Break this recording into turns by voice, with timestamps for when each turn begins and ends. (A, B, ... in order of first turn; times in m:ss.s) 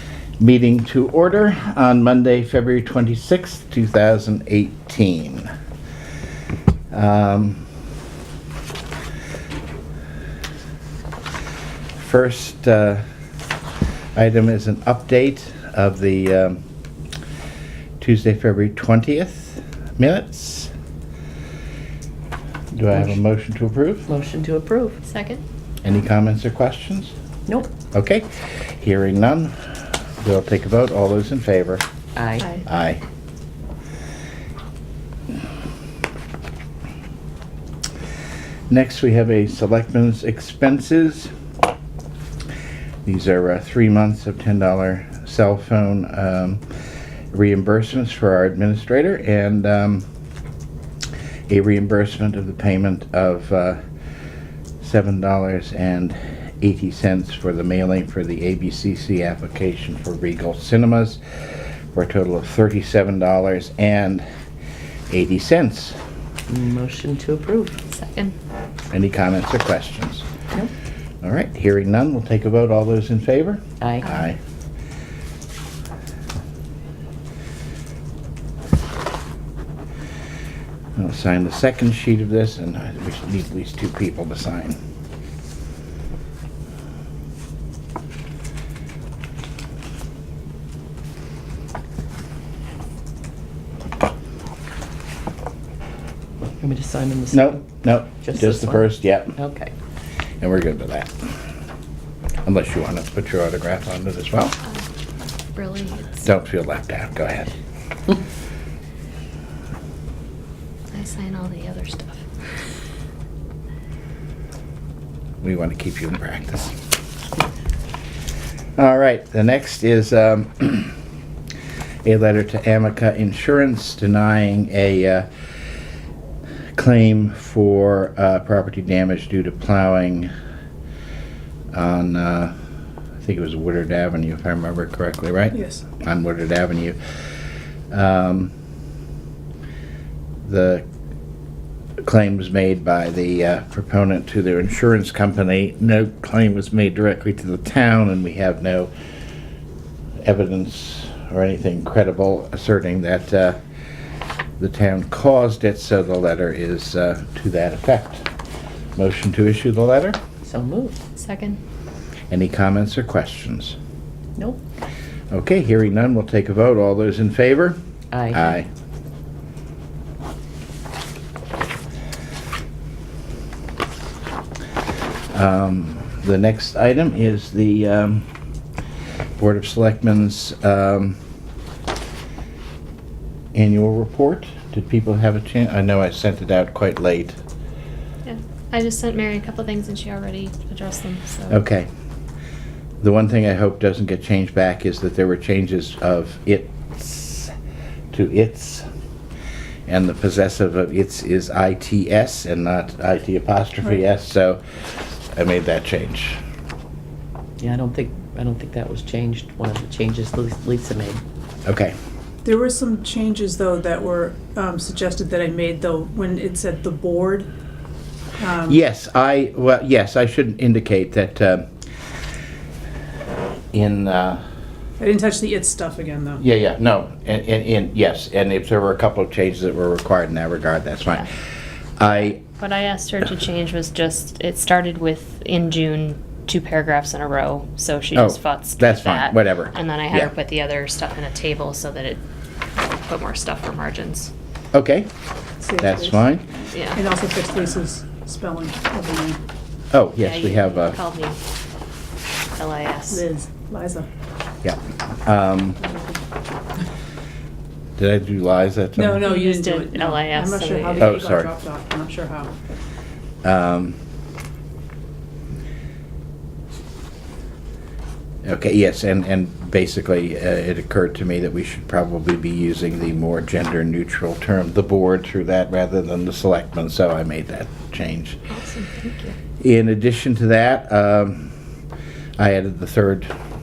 0:00.4-0:05.5 A
0:06.9-0:07.6 A
0:12.0-0:13.0 A
0:14.1-0:16.6 A
0:18.0-0:20.7 A
0:22.7-0:24.1 A
0:22.9-0:23.2 B
0:24.1-0:25.0 B
0:25.0-0:25.4 C
0:25.8-0:27.1 A
0:27.5-0:27.7 B
0:27.9-0:29.5 A
0:30.2-0:31.8 A
0:32.2-0:32.5 B
0:32.6-0:33.0 A
0:38.7-0:41.3 A
0:43.0-0:46.6 A
0:47.3-0:50.0 A
0:51.5-0:53.8 A
0:54.8-1:01.2 A
1:01.9-1:04.2 A
1:05.1-1:06.0 A
1:06.5-1:07.8 B
1:07.9-1:08.3 C
1:08.9-1:10.3 A
1:11.2-1:14.4 A
1:13.8-1:14.0 B
1:21.0-1:24.8 A
1:36.6-1:37.7 B
1:37.3-1:39.3 A
1:38.2-1:39.7 B
1:40.4-1:41.1 A
1:42.4-1:44.5 A
1:45.5-1:46.2 C
1:46.2-1:47.5 A
1:50.9-1:52.6 C
1:55.4-1:56.8 A
1:58.8-2:00.9 A
2:02.0-2:05.3 A
2:06.7-2:10.3 A
2:11.7-2:12.5 A
2:13.2-2:17.0 A
2:15.5-2:15.8 D
2:17.9-2:18.5 A
2:20.4-2:20.8 A
2:22.0-2:28.9 A
2:30.2-2:33.6 A
2:34.6-2:38.3 A
2:39.0-2:40.2 A
2:40.4-2:41.0 B
2:41.2-2:41.6 C
2:42.3-2:43.8 A
2:45.3-2:47.8 A
2:48.1-2:48.4 B
2:48.3-2:48.7 A
2:55.3-2:58.3 A
2:59.4-3:01.2 A
3:03.5-3:07.4 A
3:08.2-3:11.6 C
3:11.5-3:11.9 A
3:13.0-3:17.5 A
3:18.1-3:18.8 A
3:19.9-3:24.6 A
3:25.3-3:26.4 A
3:27.6-3:31.2 B
3:31.6-3:32.0 A
3:32.4-3:37.5 D
3:38.4-3:38.8 D
3:38.7-3:41.7 A
3:43.7-3:44.4 A
3:45.0-3:46.4 D
3:46.4-3:51.3 A
3:52.0-3:52.4 A
3:52.4-4:02.2 C
3:58.1-4:00.3 A
4:02.9-4:04.3 C
4:04.7-4:05.1 A
4:05.6-4:06.2 D
4:05.8-4:06.5 A
4:06.7-4:07.0 C
4:06.9-4:09.4 D
4:09.9-4:11.0 A
4:10.2-4:11.4 C
4:12.6-4:13.2 C
4:13.1-4:14.1 D
4:14.6-4:15.8 A
4:18.0-4:19.3 A
4:19.0-4:22.5 D
4:19.2-4:21.2 C
4:21.0-4:21.5 A
4:23.4-4:24.0 A
4:28.4-4:38.4 A
4:38.5-4:39.3 C
4:39.6-4:41.5 A
4:42.4-4:43.3 A